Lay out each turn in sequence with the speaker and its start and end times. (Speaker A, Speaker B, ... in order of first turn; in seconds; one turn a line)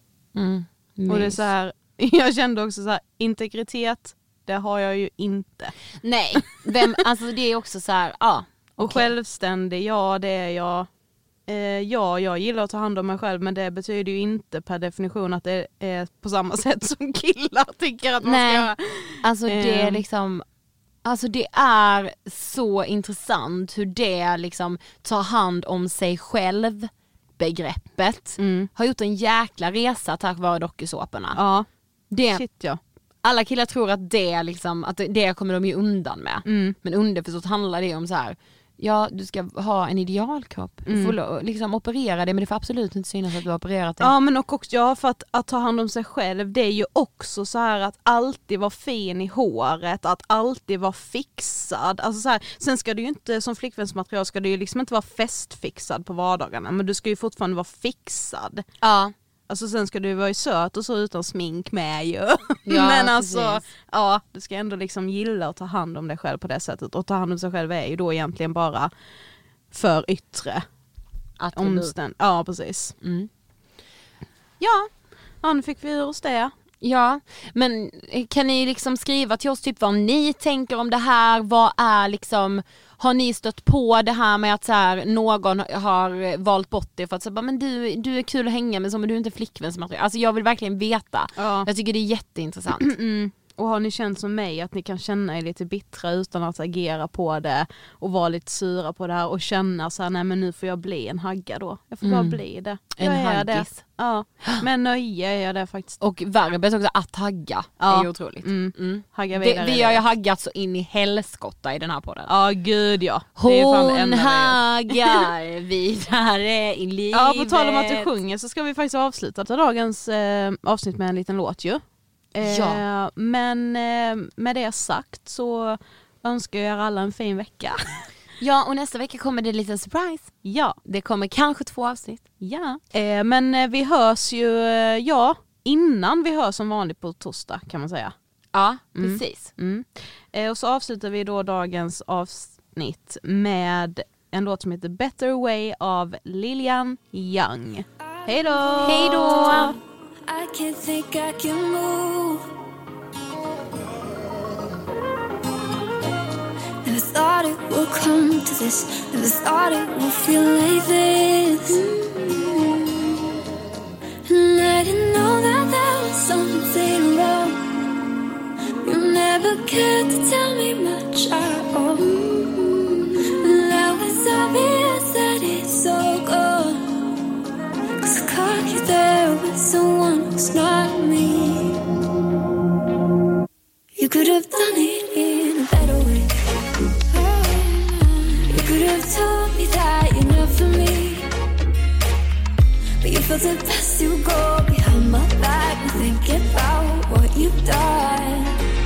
Speaker A: 0.3-1.5
Speaker B: 1.1-5.7
Speaker A: 6.0-9.1
Speaker B: 8.8-10.9
Speaker B: 11.5-20.1
Speaker A: 18.2-20.4
Speaker A: 21.0-31.4
Speaker B: 28.4-28.7
Speaker B: 31.3-31.7
Speaker A: 32.1-32.5
Speaker B: 32.3-32.8
Speaker A: 33.2-44.1
Speaker B: 36.4-36.8
Speaker B: 40.9-41.2
Speaker B: 44.0-58.6
Speaker A: 58.8-59.1
Speaker B: 59.5-68.9
Speaker A: 62.7-63.6
Speaker B: 69.7-70.6
Speaker A: 71.4-71.9
Speaker B: 71.5-72.9
Speaker A: 73.0-73.3
Speaker B: 74.6-76.5
Speaker A: 76.8-92.9
Speaker B: 91.4-91.7
Speaker B: 92.8-106.0
Speaker A: 102.0-104.7
Speaker A: 106.0-112.3
Speaker B: 107.8-110.0
Speaker B: 112.3-115.3
Speaker A: 113.4-118.1
Speaker B: 117.1-121.8
Speaker B: 122.3-128.0
Speaker A: 122.4-122.8
Speaker A: 128.4-132.3
Speaker B: 130.4-130.8
Speaker B: 132.4-138.1
Speaker A: 138.5-139.5
Speaker B: 138.9-149.7
Speaker C: 148.2-149.6
Speaker A: 148.8-149.7
Speaker C: 150.3-152.4
Speaker C: 156.8-163.2
Speaker C: 164.2-167.6
Speaker C: 168.8-177.1
Speaker C: 178.0-181.8
Speaker C: 184.0-186.3
Speaker C: 187.1-191.3
Speaker C: 193.0-198.5